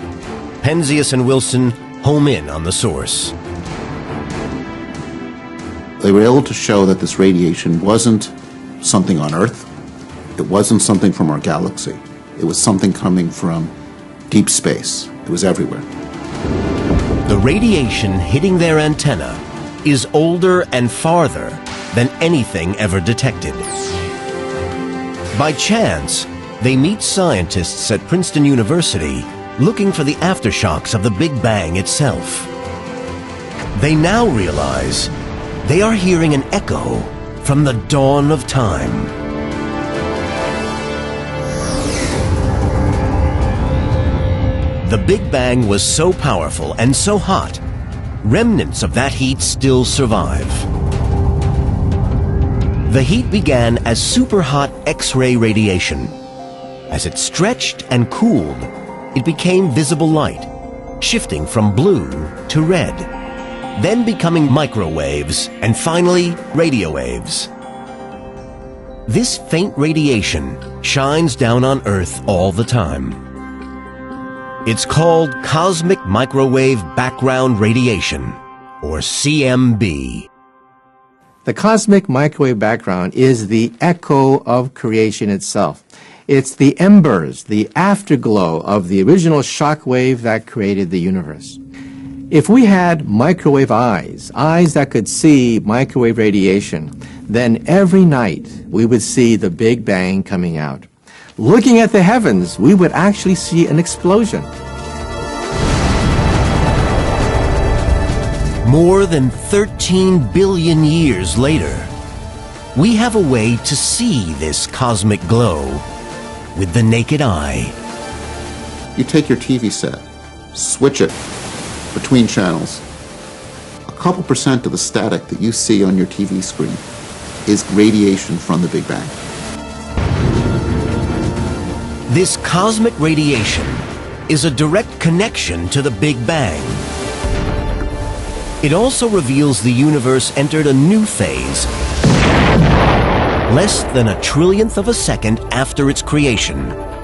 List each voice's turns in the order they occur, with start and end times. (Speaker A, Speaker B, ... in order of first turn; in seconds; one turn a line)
Speaker A: 0.6-3.3
Speaker B: 6.0-9.7
Speaker B: 10.3-13.7
Speaker B: 14.3-15.9
Speaker A: 17.2-23.7
Speaker A: 25.3-32.5
Speaker A: 33.7-35.1
Speaker A: 35.6-39.1
Speaker A: 44.8-47.6
Speaker A: 48.2-50.7
Speaker A: 52.9-56.1
Speaker A: 56.9-60.5
Speaker A: 61.0-63.1
Speaker A: 63.8-67.5
Speaker A: 69.1-73.2
Speaker A: 74.6-80.3
Speaker C: 81.4-91.6
Speaker C: 92.3-104.5
Speaker A: 108.6-111.9
Speaker A: 112.7-115.8
Speaker A: 116.5-117.8
Speaker B: 119.0-121.1
Speaker B: 121.9-122.8
Speaker B: 123.9-126.8
Speaker B: 127.5-129.2
Speaker A: 132.1-136.8
Speaker A: 138.6-141.7
Speaker A: 143.5-146.8